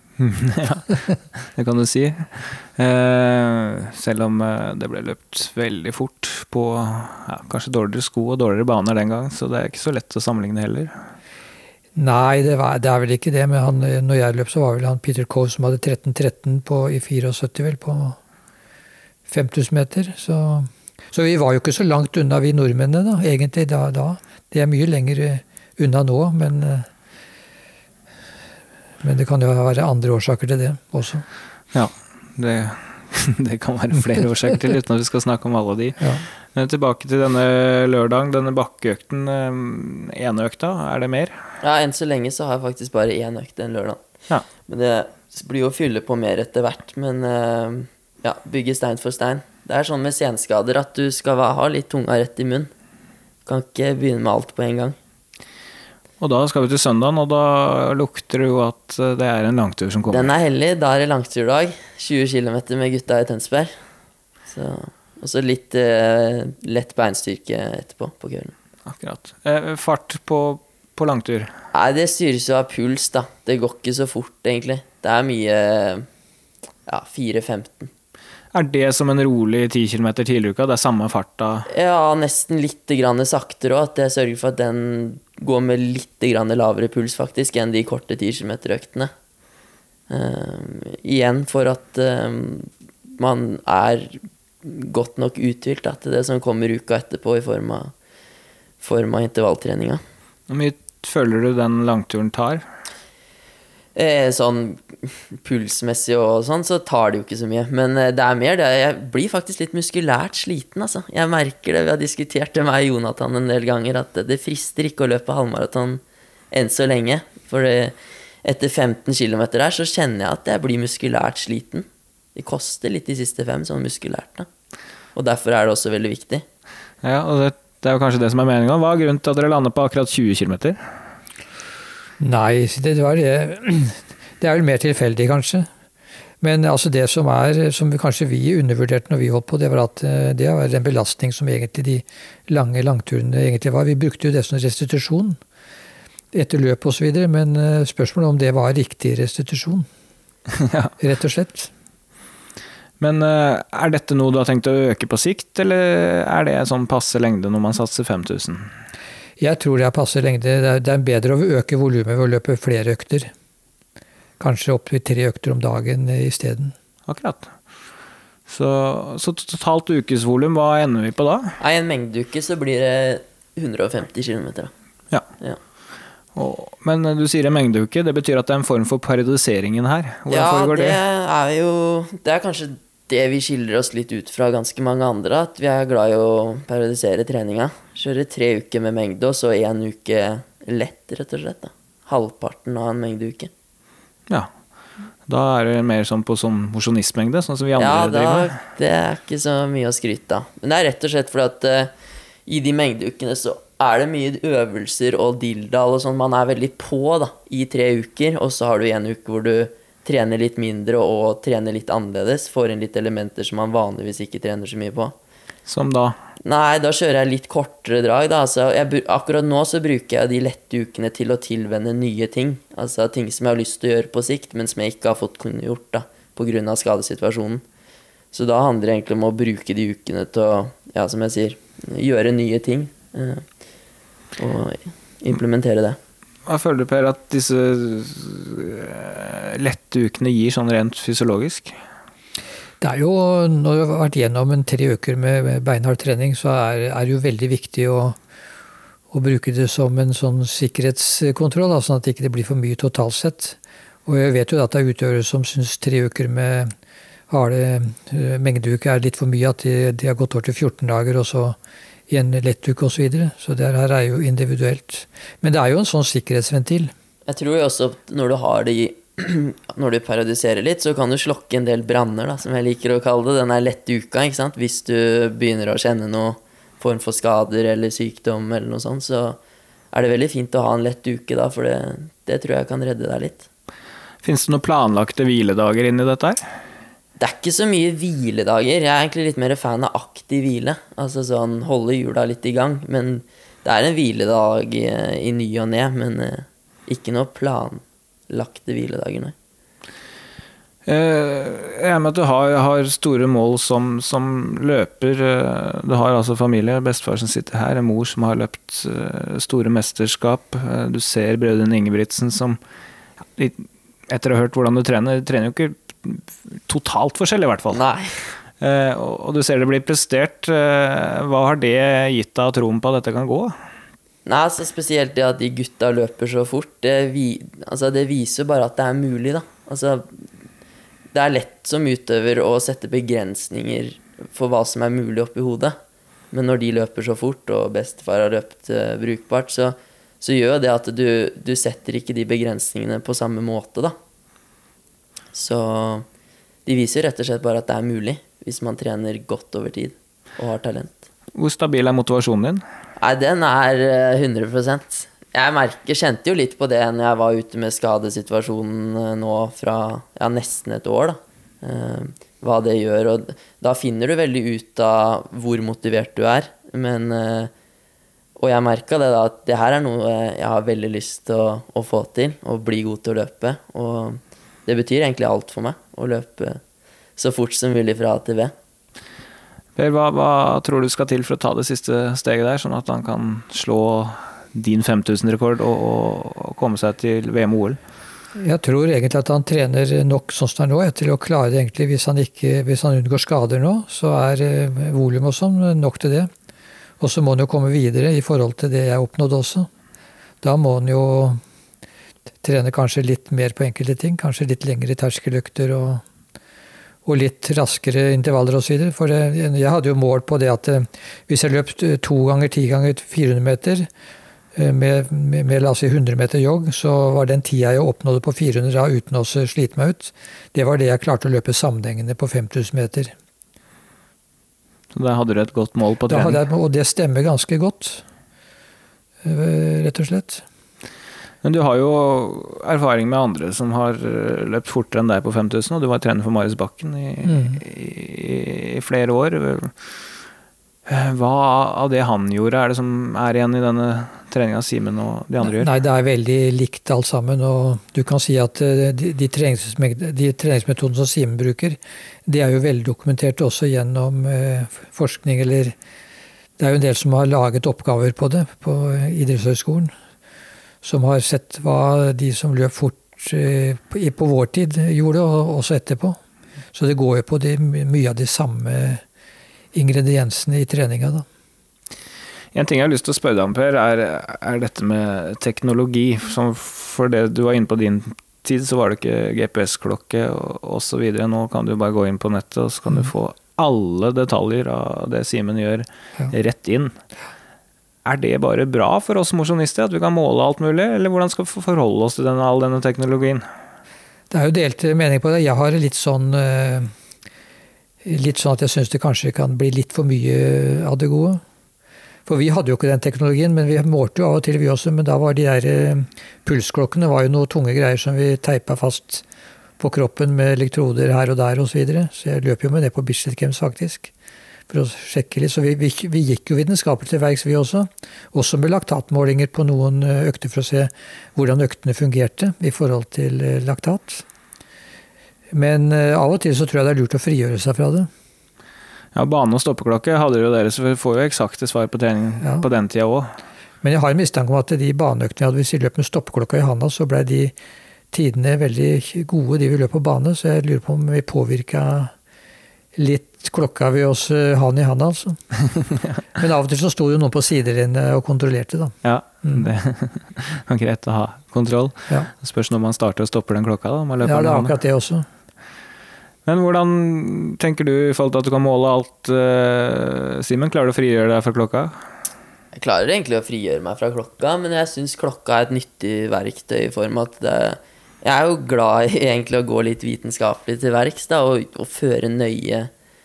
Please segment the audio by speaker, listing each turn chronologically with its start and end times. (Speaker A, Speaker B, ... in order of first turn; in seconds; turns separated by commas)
Speaker A: 0.2-10.9, Speaker B: 11.9-18.2, Speaker B: 19.3-26.9, Speaker B: 29.0-31.2, Speaker A: 31.7-41.4, Speaker B: 36.0-36.2, Speaker C: 41.6-44.0, Speaker C: 44.6-52.7, Speaker C: 53.5-55.0, Speaker A: 56.2-60.3, Speaker C: 60.1-63.7, Speaker C: 64.5-68.5, Speaker A: 68.9-71.5, Speaker C: 71.7-76.0, Speaker C: 76.9-77.9, Speaker A: 78.5-81.7, Speaker C: 81.7-89.1, Speaker C: 90.1-97.9, Speaker C: 98.8-100.0, Speaker A: 100.5-102.6, Speaker C: 104.0-124.5, Speaker C: 125.1-126.4, Speaker A: 127.0-130.8, Speaker B: 132.2-135.7, Speaker B: 136.4-145.4, Speaker B: 146.3-149.9, Speaker A: 150.5-150.9, Speaker B: 151.0-151.7, Speaker A: 153.0-158.7, Speaker B: 159.4-163.3, Speaker B: 164.4-166.7, Speaker A: 167.1-167.5, Speaker A: 168.5-171.6, Speaker C: 171.6-174.7, Speaker A: 176.3-181.0, Speaker C: 180.3-193.5, Speaker A: 195.3-198.6, Speaker C: 197.8-201.9, Speaker C: 202.4-215.1, Speaker A: 215.7-216.2, Speaker C: 216.4-227.6, Speaker C: 228.3-233.4, Speaker C: 234.4-236.0, Speaker A: 236.4-241.7, Speaker B: 242.8-248.2, Speaker B: 249.1-256.7, Speaker B: 257.3-261.6, Speaker B: 262.1-266.9, Speaker C: 267.3-279.4, Speaker C: 279.9-283.5, Speaker A: 284.2-286.4, Speaker C: 287.2-299.3, Speaker A: 300.9-312.6, Speaker A: 313.4-317.8, Speaker C: 317.7-318.1, Speaker A: 318.6-323.6, Speaker C: 324.2-330.1, Speaker C: 331.1-335.8, Speaker C: 336.3-343.9, Speaker C: 345.3-346.1, Speaker C: 346.6-351.0, Speaker A: 351.3-352.6, Speaker C: 353.0-367.5, Speaker C: 368.4-376.6, Speaker C: 377.2-378.5, Speaker A: 379.8-387.8, Speaker B: 388.4-396.3, Speaker B: 397.0-399.7, Speaker B: 400.4-401.4, Speaker B: 402.4-406.0, Speaker B: 407.1-413.9, Speaker B: 414.6-423.1, Speaker A: 424.9-426.4, Speaker B: 426.1-428.0, Speaker B: 429.2-430.4, Speaker A: 431.4-439.9, Speaker B: 437.2-437.6, Speaker A: 440.9-445.7, Speaker B: 445.4-455.7, Speaker B: 456.6-459.9, Speaker B: 460.8-466.2, Speaker B: 466.7-469.0, Speaker B: 469.7-471.2, Speaker A: 472.5-486.9, Speaker A: 488.1-493.4, Speaker B: 494.3-496.9, Speaker B: 498.0-501.4, Speaker B: 502.2-509.2, Speaker B: 509.8-514.1, Speaker B: 514.7-524.2, Speaker B: 525.5-528.1, Speaker A: 529.1-533.3, Speaker B: 533.8-537.5, Speaker B: 538.1-542.1, Speaker B: 542.9-545.4, Speaker B: 546.3-549.6, Speaker A: 549.0-554.7, Speaker B: 554.2-555.2, Speaker A: 556.5-562.0, Speaker C: 562.7-572.9